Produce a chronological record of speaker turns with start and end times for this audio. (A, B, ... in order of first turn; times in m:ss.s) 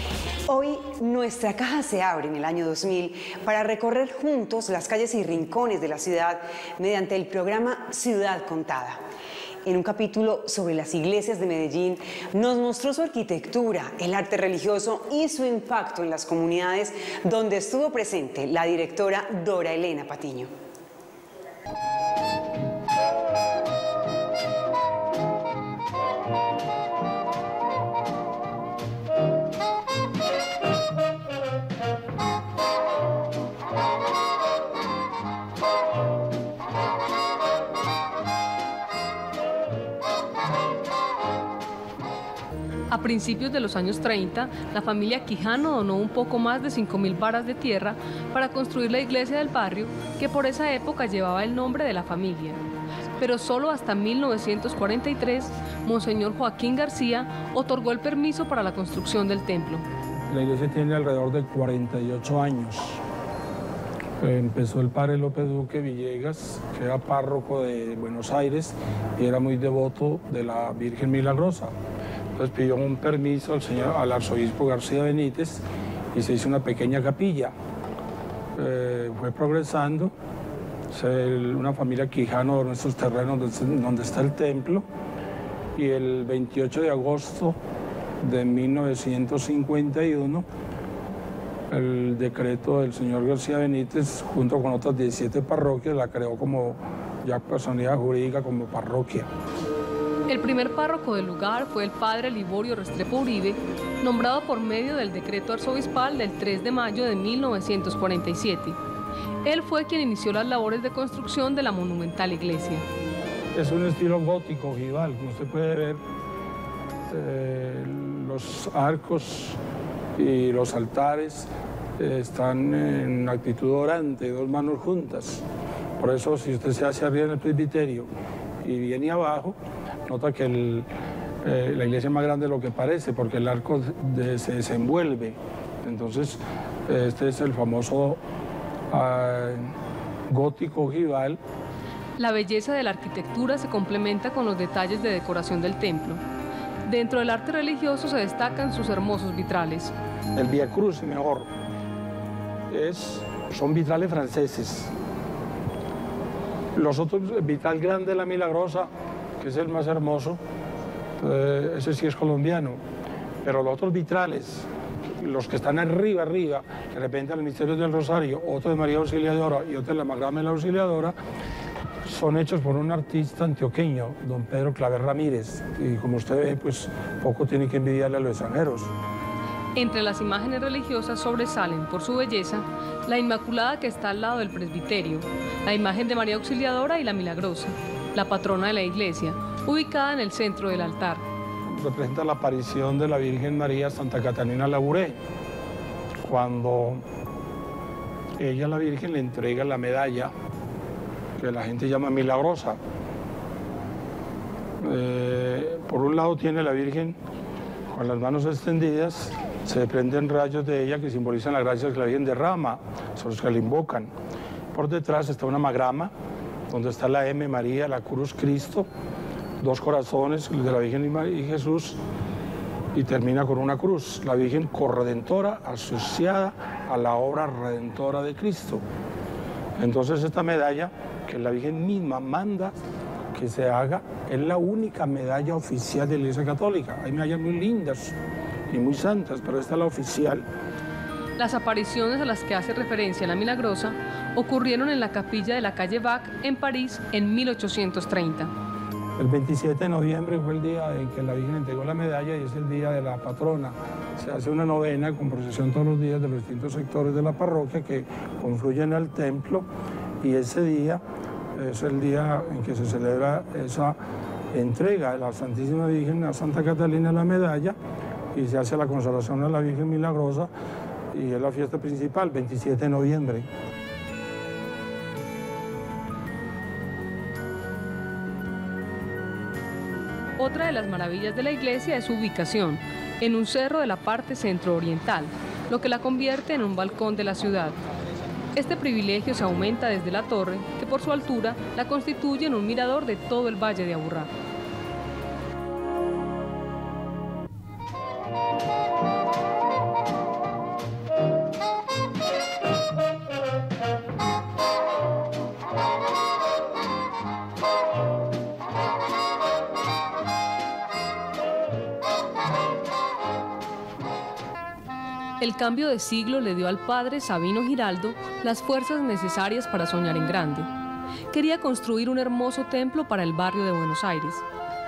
0:00.5-0:09.0 A
0:09.6-0:20.5 A
0:42.9-0:52.6 B
0:53.2-0:59.8 B
1:00.3-1:03.0 C
1:04.2-1:11.7 C
1:12.4-1:17.5 C
1:18.6-1:20.1 C
1:20.9-1:24.9 C
1:25.8-1:27.6 C
1:28.2-1:30.5 C
1:31.7-1:39.3 C
1:40.3-1:48.8 B
1:49.4-1:52.8 B
1:53.5-1:56.0 C
1:57.1-1:59.6 C
2:00.2-2:05.4 C
2:06.0-2:10.9 C
2:11.4-2:18.2 C
2:18.9-2:19.7 C
2:20.3-2:21.4 C
2:22.2-2:26.2 B
2:26.8-2:30.0 B
2:30.4-2:31.5 C
2:32.7-2:34.9 C
2:36.8-2:38.9 C
2:39.4-2:40.4 C
2:41.2-2:42.8 C
2:43.4-2:51.2 C
2:52.0-2:58.9 C
2:59.8-3:11.2 B
3:11.7-3:15.2 C
3:16.2-3:17.0 C
3:18.4-3:20.3 C
3:21.4-3:22.8 C
3:24.8-3:27.2 C
3:27.9-3:34.1 C
3:34.7-3:36.1 C
3:36.7-3:38.9 C
3:39.6-3:42.0 C
3:42.9-3:48.8 C
3:49.8-3:52.8 C
3:53.3-3:58.2 C
3:58.7-4:00.5 C
4:01.4-4:08.5 B
4:09.2-4:19.7 C
4:20.2-4:21.0 C
4:21.6-4:24.0 C
4:24.5-4:27.8 C
4:28.3-4:30.5 C
4:31.1-4:33.5 C
4:40.4-4:47.8 B
4:48.6-4:54.3 B
5:15.4-5:20.7 B
5:21.3-5:24.4 B